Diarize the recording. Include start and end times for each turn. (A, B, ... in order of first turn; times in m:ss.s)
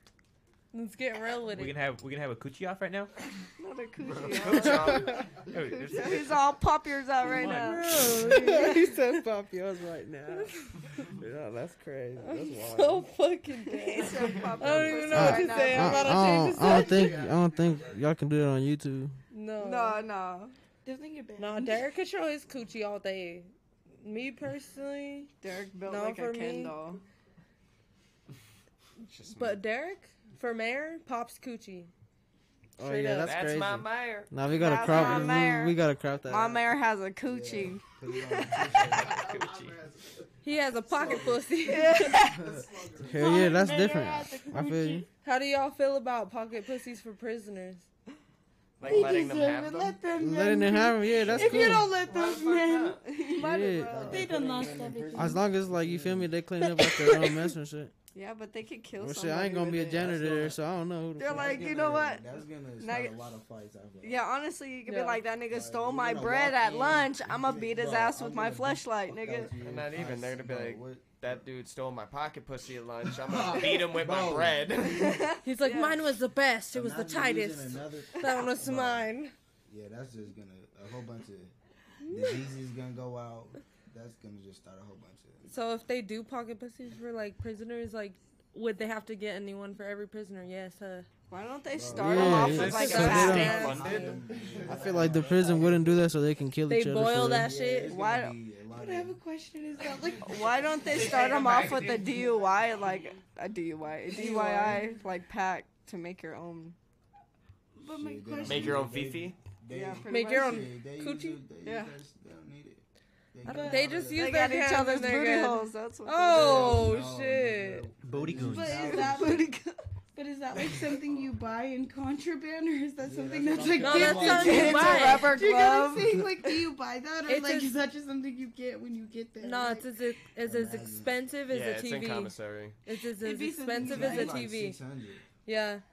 0:00.7-0:01.8 A
0:01.5-0:03.1 B
0:03.6-0:08.0 C
0:04.4-0:05.0 D
0:05.5-0:06.4 B
0:07.2-0:07.8 B
0:07.6-0:09.0 A
0:08.0-0:13.1 E
0:10.3-0:10.7 A
0:12.2-0:17.2 A
0:13.7-0:16.2 C
0:15.1-0:19.2 E
0:19.3-0:20.0 A
0:19.6-0:20.6 C
0:20.8-0:21.8 F
0:21.4-0:25.3 A
0:25.4-0:27.0 C
0:25.9-0:26.8 A
0:29.0-0:29.6 D
0:29.3-0:31.9 A
0:32.8-0:36.7 E
0:32.8-0:33.4 A
0:33.2-0:34.3 D
0:34.5-0:38.7 C
0:37.2-0:39.2 G
0:39.0-0:39.8 B
0:40.4-0:42.3 A
0:41.6-0:42.6 C
0:42.4-0:42.8 G
0:43.0-0:45.0 E
0:43.0-0:45.1 F
0:45.2-0:47.9 A
0:48.8-0:50.0 D
0:48.8-0:53.4 F
0:50.2-0:51.9 E
0:51.2-0:51.9 G
0:52.0-0:53.0 D
0:53.0-0:54.6 C
0:53.4-0:54.1 E
0:53.8-0:56.3 G
0:54.1-0:55.4 F
0:55.2-0:57.9 E
0:58.1-1:00.0 C
0:59.0-1:01.6 E
0:59.5-1:00.6 G
1:01.2-1:03.2 C
1:01.3-1:04.2 G
1:04.0-1:09.6 C
1:04.8-1:05.2 A
1:05.5-1:11.4 G
1:09.6-1:15.0 D
1:13.1-1:14.8 G
1:14.8-1:16.0 C
1:15.4-1:19.3 A
1:16.7-1:19.1 G
1:19.7-1:21.5 G
1:22.0-1:22.4 A
1:22.1-1:25.4 G
1:25.5-1:31.1 A
1:31.3-1:34.0 C
1:31.7-1:32.7 G
1:32.0-1:33.6 E
1:32.3-1:34.3 D
1:32.3-1:34.1 A
1:33.5-1:36.0 G
1:34.6-1:37.5 E
1:36.7-1:37.9 A
1:37.3-1:39.2 G
1:37.8-1:38.4 C
1:38.7-1:40.9 F
1:40.2-1:46.8 C
1:44.2-1:44.8 A
1:44.2-1:44.9 F
1:47.8-1:48.8 F
1:47.9-1:54.3 G
1:48.4-1:49.4 D
1:49.7-1:50.7 C
1:50.1-1:51.4 A
1:51.6-1:52.0 C
1:53.4-1:57.9 A
1:53.5-1:54.0 F
1:54.1-1:56.9 C
1:56.3-1:59.4 G
1:58.0-1:58.9 B
1:58.4-1:59.5 F
1:58.8-1:59.8 C
2:00.1-2:09.9 F
2:03.0-2:05.1 G
2:03.8-2:05.4 A
2:04.1-2:06.7 C
2:07.3-2:07.7 A
2:09.4-2:14.8 A
2:10.4-2:11.2 G
2:11.5-2:12.8 D
2:13.1-2:14.4 F
2:13.8-2:15.2 G
2:15.5-2:15.8 A